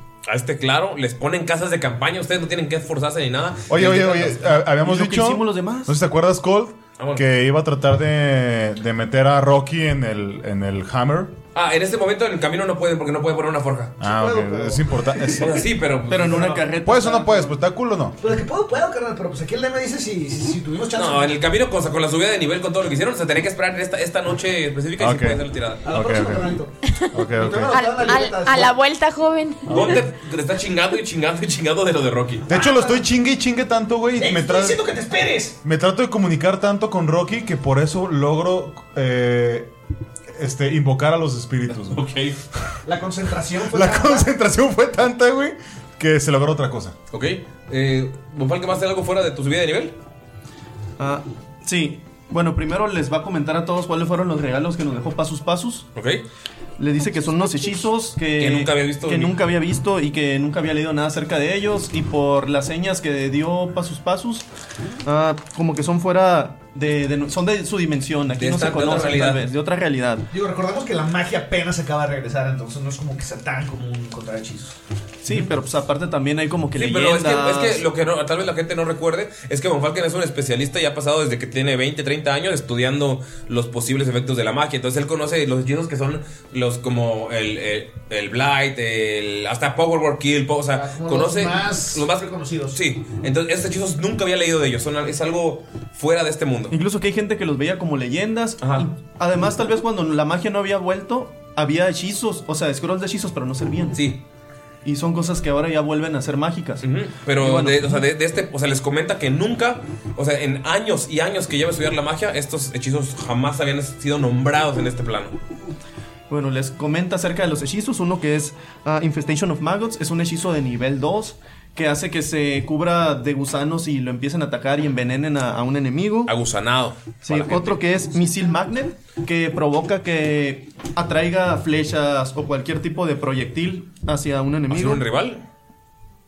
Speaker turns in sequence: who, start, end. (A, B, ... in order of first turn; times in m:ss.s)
0:00.3-0:04.6 A
0:03.7-0:11.3 B
0:04.8-0:06.0 C
0:07.0-0:07.2 A
0:11.5-0:14.0 A
0:14.0-0:15.6 B
0:14.0-0:15.6 D
0:15.4-0:16.5 A
0:16.1-0:17.5 C
0:16.2-0:16.7 D
0:16.8-0:18.2 B
0:18.2-0:21.4 D
0:20.9-0:25.8 A
0:25.0-0:26.6 B
0:25.8-0:26.8 D
0:27.1-0:27.8 B
0:27.3-0:28.7 D
0:27.7-0:30.0 E
0:29.7-0:32.5 A
0:32.5-0:34.8 B
0:32.5-0:33.1 D
0:34.2-0:35.6 D
0:35.6-0:39.7 B
0:40.4-0:42.0 B
0:41.9-0:42.4 A
0:42.8-0:44.3 D
0:43.7-0:47.0 B
0:47.1-0:50.0 A
0:51.0-0:55.9 C
0:56.0-0:56.2 A
0:56.8-1:04.5 C
0:58.4-0:59.4 A
1:05.0-1:10.3 C
1:08.3-1:09.5 A
1:10.3-1:14.8 D
1:15.2-1:17.8 C
1:16.8-1:36.8 A
1:30.7-1:32.8 D
1:36.7-1:44.0 C
1:38.6-1:38.9 A
1:44.0-1:44.2 A
1:44.8-1:48.0 C
1:46.8-1:55.4 A
1:56.3-2:06.3 C
2:06.3-2:08.1 A
2:07.2-2:15.1 C
2:14.7-2:15.4 A